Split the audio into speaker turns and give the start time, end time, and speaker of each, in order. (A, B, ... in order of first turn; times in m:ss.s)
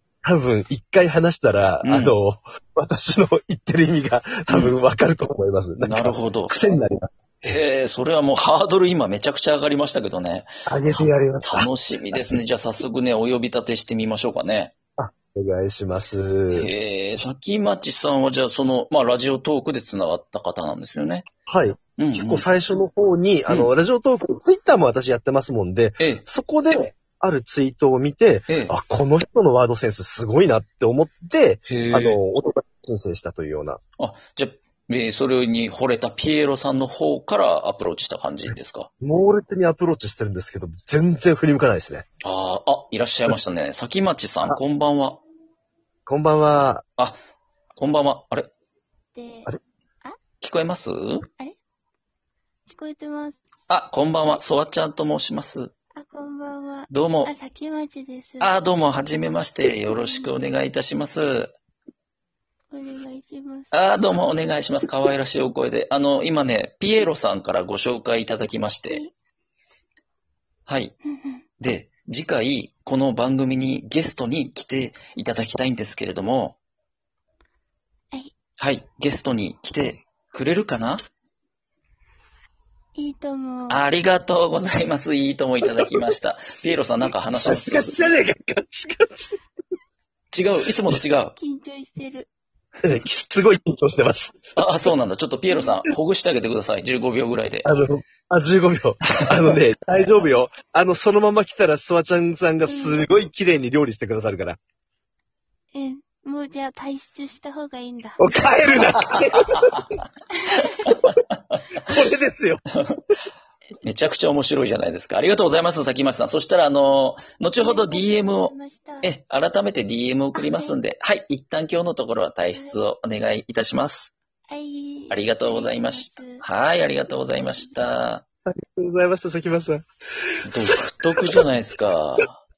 0:00.2-0:07.1 A
0:01.8-0:02.1 B
0:04.5-0:04.7 B
0:05.8-0:06.5 B
0:07.4-0:14.7 B
0:10.7-0:12.4 A
0:15.0-0:16.7 A
0:16.5-0:21.3 B
0:21.5-0:33.8 A
0:22.0-0:22.5 B
0:23.5-0:23.7 B
0:31.7-0:32.2 B
0:34.0-0:38.9 B
0:39.0-0:42.0 A
0:42.2-0:45.2 B
0:46.1-0:46.8 A
0:47.8-0:48.5 B
0:49.2-0:49.5 C
0:50.4-0:51.3 B
0:52.7-0:53.4 C
0:53.7-0:55.7 B
0:56.0-0:58.6 C
0:56.9-0:57.3 B
0:58.4-1:01.5 B
0:59.7-1:00.3 C
1:02.7-1:03.7 C
1:03.7-1:09.0 B
1:10.7-1:11.0 B
1:11.1-1:11.4 C
1:11.6-1:16.6 B
1:18.6-1:21.0 B
1:23.0-1:23.8 C
1:23.7-1:28.1 B
1:27.4-1:29.4 A
1:30.3-1:31.4 B
1:31.4-1:32.3 C
1:32.8-1:34.5 A
1:34.6-1:37.7 B
1:37.6-1:44.6 A
1:42.6-1:43.0 C
1:45.7-1:49.0 C
1:48.2-1:49.9 A
1:49.0-1:49.8 B
1:50.4-1:50.9 C
1:50.5-1:51.6 B
1:51.8-1:52.6 A
1:53.8-2:04.1 B
1:57.6-1:59.1 C
2:00.4-2:00.7 C
2:04.5-2:06.4 C
2:05.1-2:08.2 B
2:08.5-2:11.4 A
2:10.5-2:12.4 B